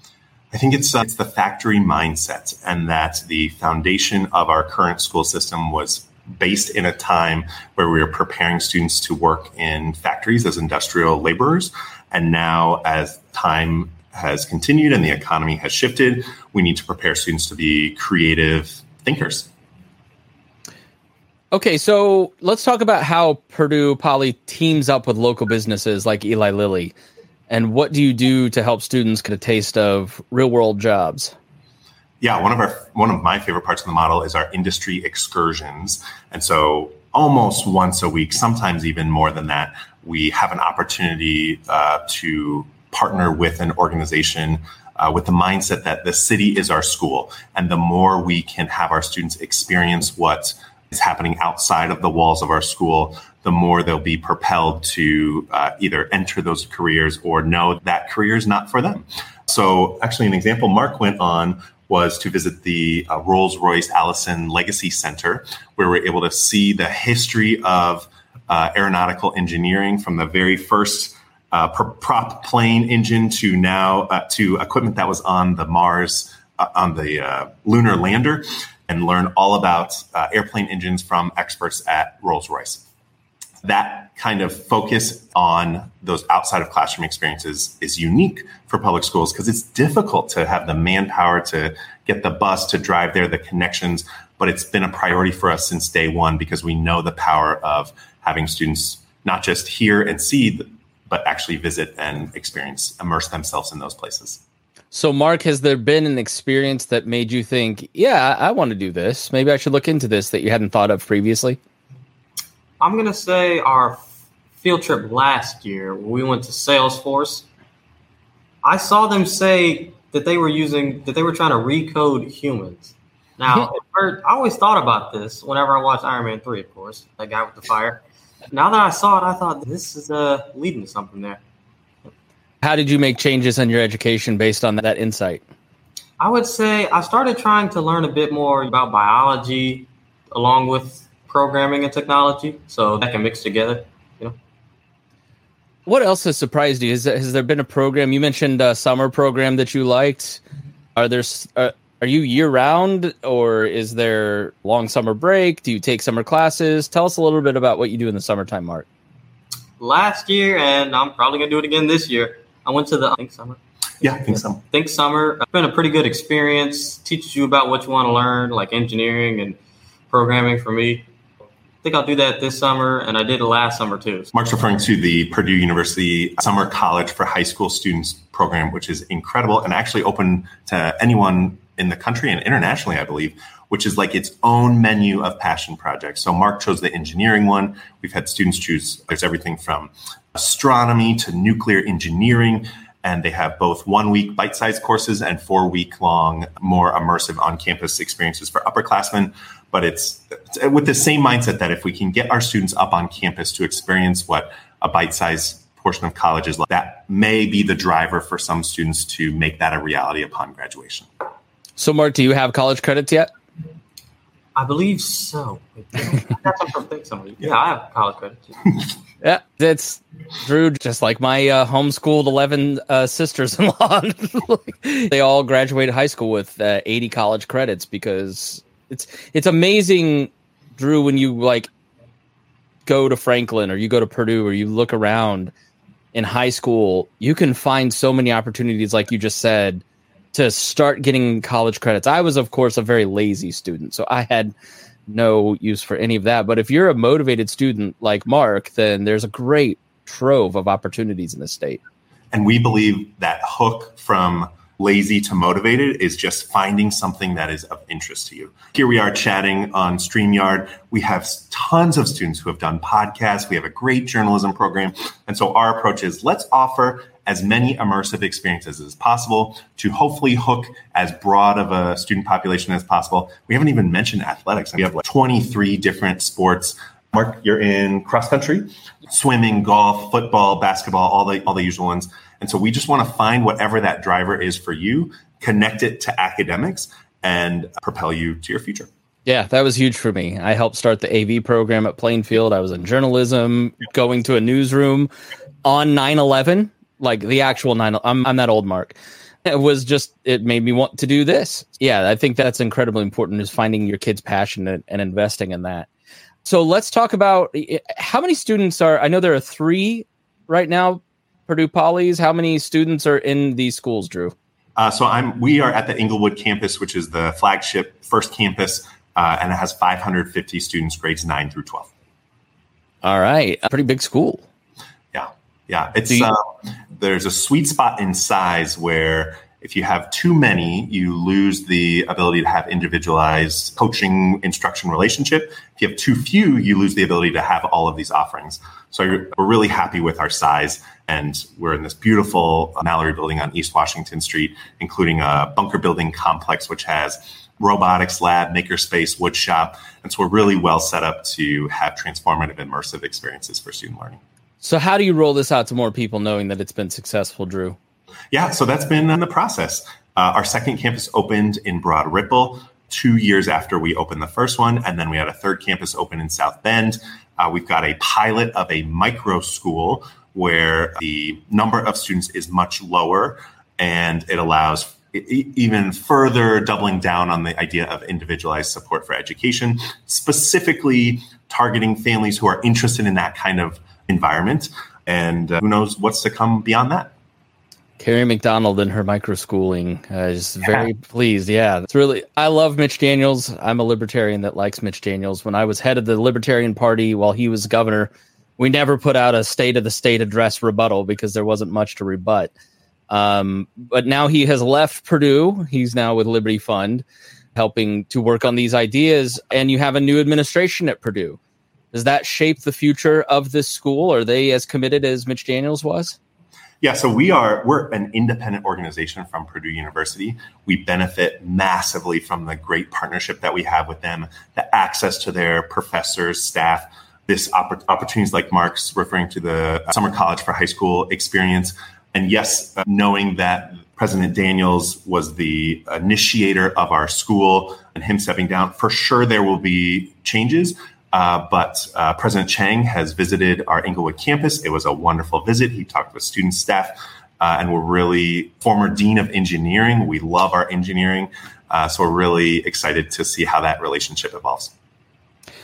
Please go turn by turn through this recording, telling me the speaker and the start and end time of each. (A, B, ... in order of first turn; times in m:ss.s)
0:00.5-0:19.5 A
0:21.5-0:26.9 B
0:27.5-0:31.3 B
0:32.2-1:22.8 A
1:23.6-1:44.4 A
1:44.9-1:51.6 B
1:52.8-1:54.1 C
1:54.6-1:57.5 C
1:58.6-2:11.4 C
2:12.6-2:15.4 B
2:16.2-2:24.4 C
2:25.9-2:30.4 B
2:31.0-2:38.9 B
2:39.8-2:49.6 C
2:44.0-2:44.6 A
2:50.1-2:51.1 C
2:51.8-2:54.3 C
2:54.3-3:31.1 A
3:31.8-3:33.3 B
3:34.6-3:38.8 C
3:39.2-3:51.7 B
3:52.9-3:55.5 B
3:56.1-4:04.5 B
4:05.1-4:11.8 B
4:12.3-4:48.9 A
4:49.3-4:55.1 B
4:55.6-5:05.9 B
5:06.4-5:14.3 B
5:14.8-5:21.9 A
5:23.0-5:24.5 B
5:25.1-5:54.2 A
5:54.6-5:57.8 B
5:58.3-6:27.1 A
6:28.0-6:42.5 B
6:43.1-6:51.4 B
6:51.9-6:56.2 B
6:56.8-7:34.7 A